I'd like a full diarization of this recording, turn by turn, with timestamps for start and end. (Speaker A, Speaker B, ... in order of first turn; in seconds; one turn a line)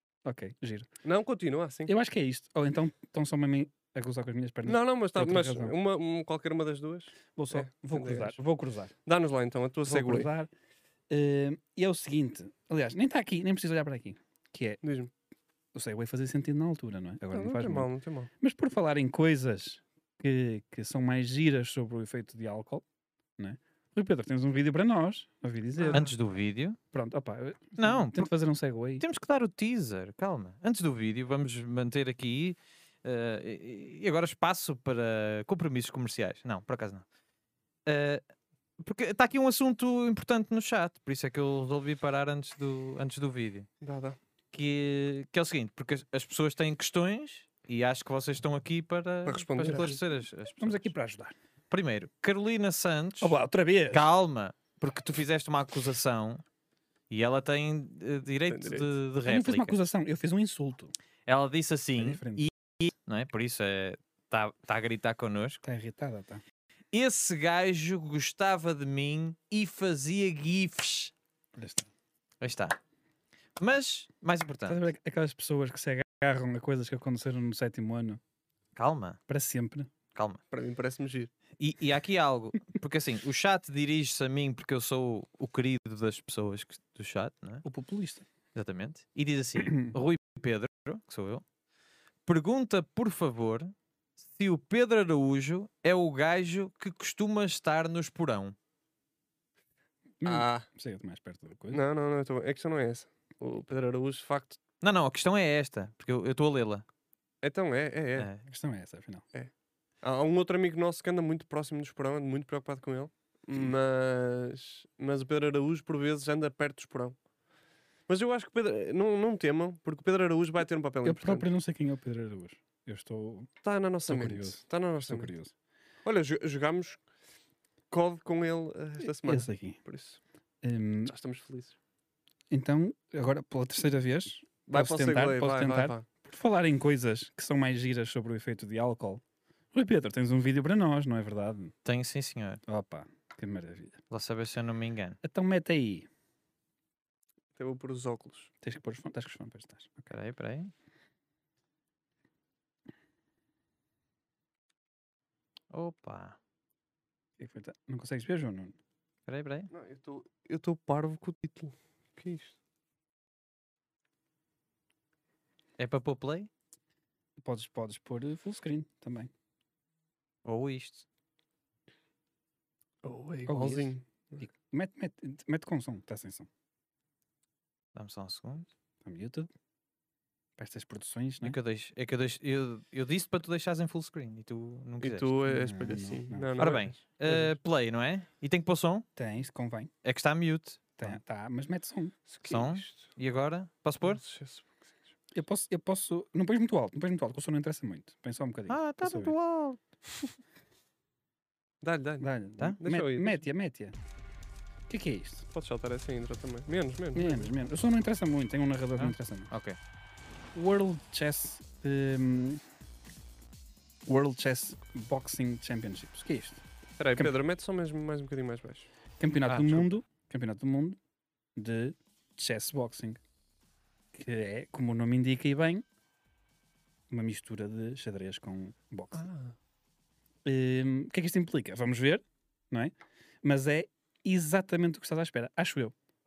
Speaker A: 0.2-0.9
Speaker B: 1.0-1.9
Speaker A: 1.9-5.8
Speaker B: 4.7-8.4
Speaker A: 7.4-8.9
Speaker B: 9.1-10.3
Speaker A: 9.9-10.5
Speaker A: 11.1-14.8
Speaker B: 14.8-15.1
Speaker A: 15.7-22.8
Speaker B: 17.3-18.3
Speaker A: 23.4-26.1
Speaker B: 25.8-26.1
Speaker C: 25.9-26.8
Speaker A: 26.9-29.1
Speaker C: 27.8-28.3
Speaker C: 29.0-37.0
Speaker C: 37.9-38.2
Speaker C: 38.8-43.7
Speaker B: 43.8-44.2
Speaker C: 44.5-50.9
Speaker B: 49.2-50.0
Speaker A: 50.6-51.4
Speaker C: 51.7-53.4
Speaker A: 53.2-54.1
Speaker C: 53.9-56.4
Speaker C: 57.1-59.8
Speaker B: 58.5-58.9
Speaker A: 59.2-60.9
Speaker C: 61.3-65.6
Speaker A: 62.0-62.5
Speaker A: 65.6-66.4
Speaker C: 66.9-71.1
Speaker A: 71.5-71.9
Speaker C: 72.4-72.8
Speaker C: 73.6-74.8
Speaker A: 74.7-78.2
Speaker C: 78.8-79.2
Speaker A: 79.3-79.9
Speaker C: 80.2-80.4
Speaker B: 80.5-81.3
Speaker C: 81.6-87.6
Speaker A: 87.6-88.3
Speaker C: 88.5-91.4
Speaker A: 89.6-90.0
Speaker C: 92.3-98.6
Speaker A: 100.2-101.8
Speaker B: 100.2-100.7
Speaker B: 101.7-104.6
Speaker C: 104.8-106.8
Speaker B: 107.4-108.3
Speaker C: 108.2-108.5
Speaker A: 108.5-109.3
Speaker B: 110.0-117.2
Speaker B: 118.1-121.5
Speaker A: 121.0-123.5
Speaker B: 123.6-125.3
Speaker A: 124.1-125.5
Speaker B: 126.0-127.0
Speaker B: 127.9-130.2
Speaker A: 129.0-129.8
Speaker A: 130.6-131.1
Speaker B: 131.1-131.8
Speaker A: 132.5-139.2
Speaker B: 134.7-136.1
Speaker A: 139.7-141.7
Speaker C: 141.8-142.6
Speaker A: 142.7-144.0
Speaker C: 144.1-145.2
Speaker A: 145.2-146.1
Speaker B: 147.6-148.5
Speaker A: 148.6-150.1
Speaker C: 150.1-150.7
Speaker C: 155.7-156.4
Speaker A: 157.4-158.8
Speaker C: 159.3-159.7
Speaker B: 159.7-162.6
Speaker C: 165.8-166.5
Speaker A: 167.4-169.3
Speaker C: 170.4-171.1
Speaker B: 173.0-174.4
Speaker A: 173.5-176.5
Speaker C: 177.9-178.7
Speaker A: 179.0-179.5
Speaker A: 180.6-181.6
Speaker C: 181.4-185.4
Speaker B: 185.0-187.0
Speaker A: 185.5-186.5
Speaker C: 186.6-189.1
Speaker A: 189.2-189.9
Speaker C: 190.0-191.2
Speaker A: 191.0-192.2
Speaker B: 192.3-193.1
Speaker C: 192.4-194.2
Speaker B: 194.0-195.1
Speaker A: 195.3-199.3
Speaker C: 198.7-199.8
Speaker B: 201.8-203.4
Speaker A: 202.2-204.0
Speaker A: 204.9-205.5
Speaker B: 205.5-207.5
Speaker A: 207.2-209.5
Speaker C: 209.0-209.8
Speaker A: 210.5-212.6
Speaker A: 214.1-216.6
Speaker B: 217.0-218.9
Speaker A: 219.2-221.0
Speaker C: 219.5-219.9
Speaker A: 221.6-223.2
Speaker A: 224.1-225.8
Speaker A: 227.1-229.3
Speaker B: 229.1-229.6
Speaker A: 230.4-235.9